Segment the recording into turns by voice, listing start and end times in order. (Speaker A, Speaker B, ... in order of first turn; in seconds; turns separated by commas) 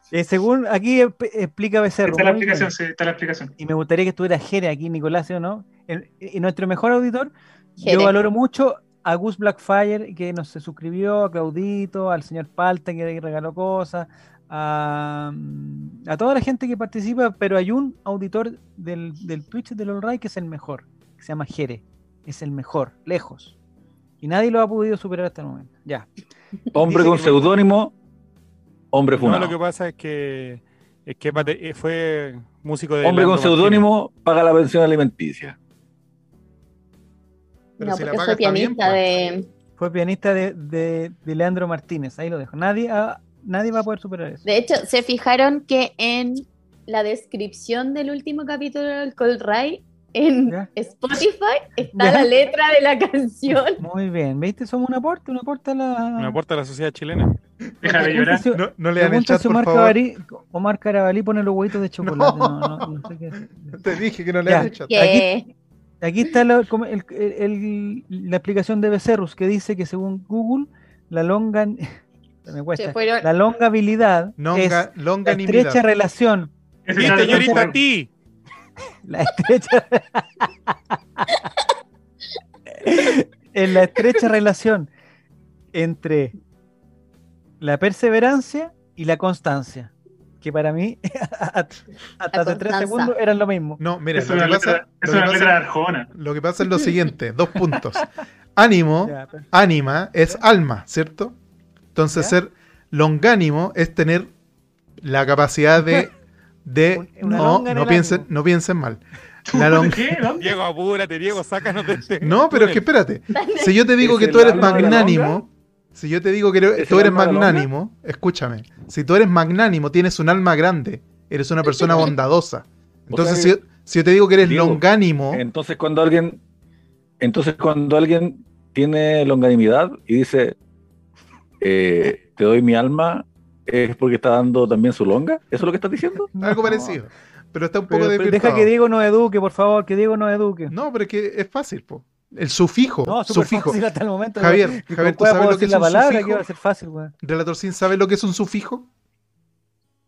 Speaker A: 0.1-2.7, Speaker B: 2.0-3.5, Speaker A: 3.6-23.5, Speaker C: 7.8-8.1, Speaker A: 24.2-26.1, Speaker D: 26.7-27.9, Speaker A: 26.8-27.4, Speaker D: 28.9-29.6, Speaker E: 29.1-33.9, Speaker D: 33.0-35.5, Speaker F: 37.8-39.0, Speaker C: 37.8-39.5, Speaker A: 39.8-44.4, Speaker C: 44.4-53.8, Speaker A: 51.9-52.3, Speaker A: 53.8-56.4, Speaker E: 56.2-57.3, Speaker B: 57.8-58.4, Speaker A: 57.8-63.8, Speaker F: 58.5-60.0, Speaker F: 62.0-62.9, Speaker F: 63.7-65.0, Speaker A: 64.5-65.3, Speaker C: 64.6-65.5, Speaker A: 66.0-77.8, Speaker C: 72.8-73.3, Speaker F: 74.4-75.8, Speaker B: 76.9-77.8, Speaker E: 77.0-78.1, Speaker A: 79.0-81.4, Speaker A: 82.7-84.9, Speaker A: 85.7-86.3, Speaker A: 87.6-93.8, Speaker C: 92.3-93.1, Speaker F: 93.8-101.3, Speaker B: 94.1-96.1, Speaker A: 99.0-99.5, Speaker F: 101.9-104.3, Speaker F: 105.0-106.1, Speaker F: 106.6-110.2, Speaker A: 106.9-108.3, Speaker B: 109.5-110.5, Speaker E: 110.4-112.8, Speaker F: 112.2-125.4, Speaker C: 113.3-113.8, Speaker D: 114.0-115.4, Speaker A: 114.4-115.2, Speaker D: 116.8-117.7, Speaker D: 123.1-123.5, Speaker D: 124.4-126.4, Speaker D: 127.2-130.6, Speaker D: 131.6-136.3, Speaker A: 136.3-137.0, Speaker F: 136.4-138.7, Speaker A: 137.9-140.7, Speaker F: 140.7-143.8, Speaker A: 143.0-147.1, Speaker F: 144.4-146.4, Speaker F: 147.2-148.9